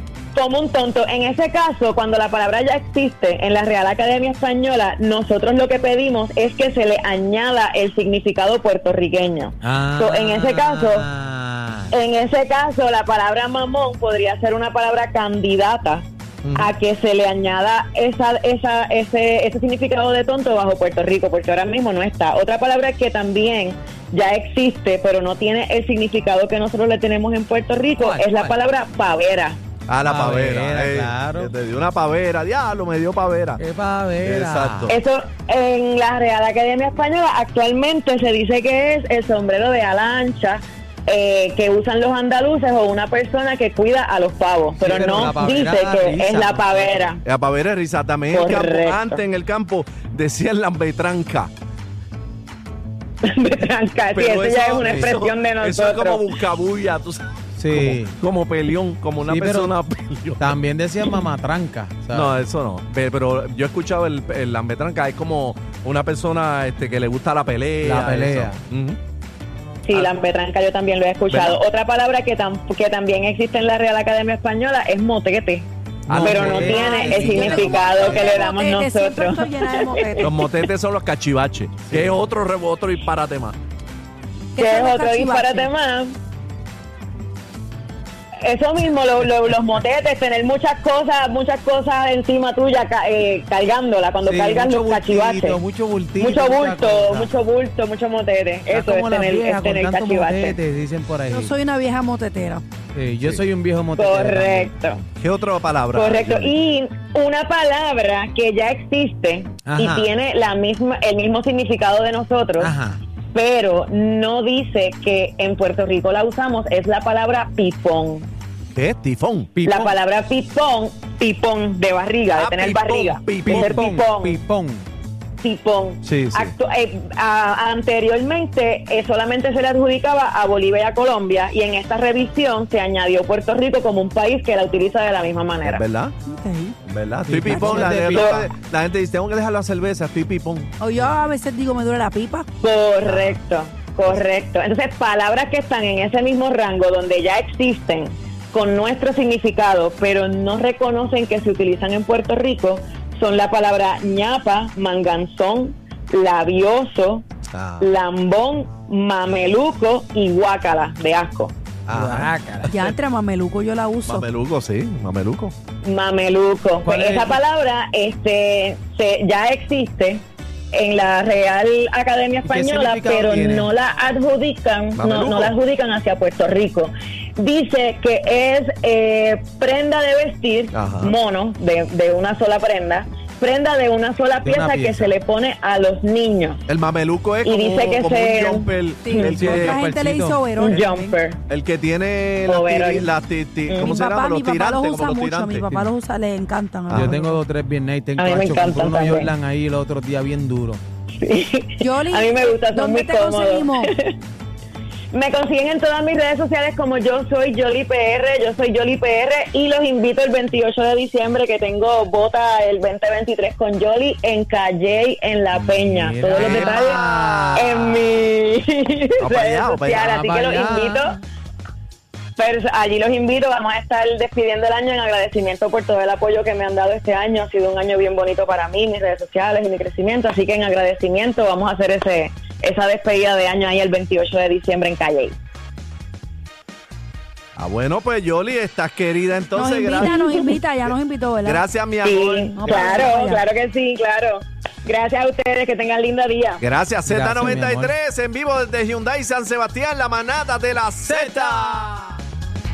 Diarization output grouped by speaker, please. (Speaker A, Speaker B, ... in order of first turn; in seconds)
Speaker A: 0.3-11.1, 11.9-16.0, 16.6-29.6, 34.9-47.2, 48.3-49.2, 53.2-56.3, 69.8-80.3, 84.6-86.2, 88.4-95.6, 96.2-100.6, 104.0-105.0, 105.9-112.7, 113.3-118.3, 119.6-124.4, 125.4-135.8, 138.1-138.4, 142.6-157.2, 157.8-161.5, 165.8-186.6, 187.4-189.5, 190.5-191.4, 192.5-193.1, 193.7-194.0, 198.2-199.3, 201.2-204.2, 205.1-221.2, 222.4-235.3, 240.0-240.6, 242.0-246.6
Speaker B: 9.6-11.9, 28.0-28.6, 30.0-31.5, 33.6-34.9, 44.8-47.0, 54.8-55.1, 57.6-58.1, 59.2-59.7, 60.4-62.3, 67.8-68.6, 76.1-78.3, 81.9-82.2, 94.2-97.3, 98.7-101.5, 102.9-104.7, 109.6-110.1, 112.6-113.0, 119.5-119.9, 123.4-124.8, 137.3-138.5, 161.9-162.8, 166.8-167.4, 172.4-173.8, 184.4-185.1, 189.2-190.4, 196.9-200.8, 215.5-218.1, 219.9-221.1, 242.7-243.0, 247.1-247.9, 251.1-252.1
Speaker C: 16.4-16.7, 29.9-33.6, 34.2-34.9, 47.2-51.5, 54.1-60.5, 62.1-69.0, 71.3-71.6, 76.1-78.1, 80.2-83.5, 105.2-106.5, 118.7-119.5, 122.3-123.8, 126.0-126.5, 135.6-136.1, 136.8-140.7, 143.0-143.4, 157.5-157.9, 161.8-162.9, 164.1-165.5, 174.9-175.5, 180.7-181.1, 186.7-189.8, 191.5-195.8, 196.9-197.2, 216.3-216.9, 219.2-220.1, 237.6-240.2, 240.8-243.1, 246.6-252.2
Speaker D: 76.9-80.2, 84.5-85.7, 101.3-102.6, 136.3-136.8, 140.8-142.5, 162.7-164.2, 189.0-191.1, 193.8-197.2, 201.8-203.9, 239.5-241.6, 242.6-243.4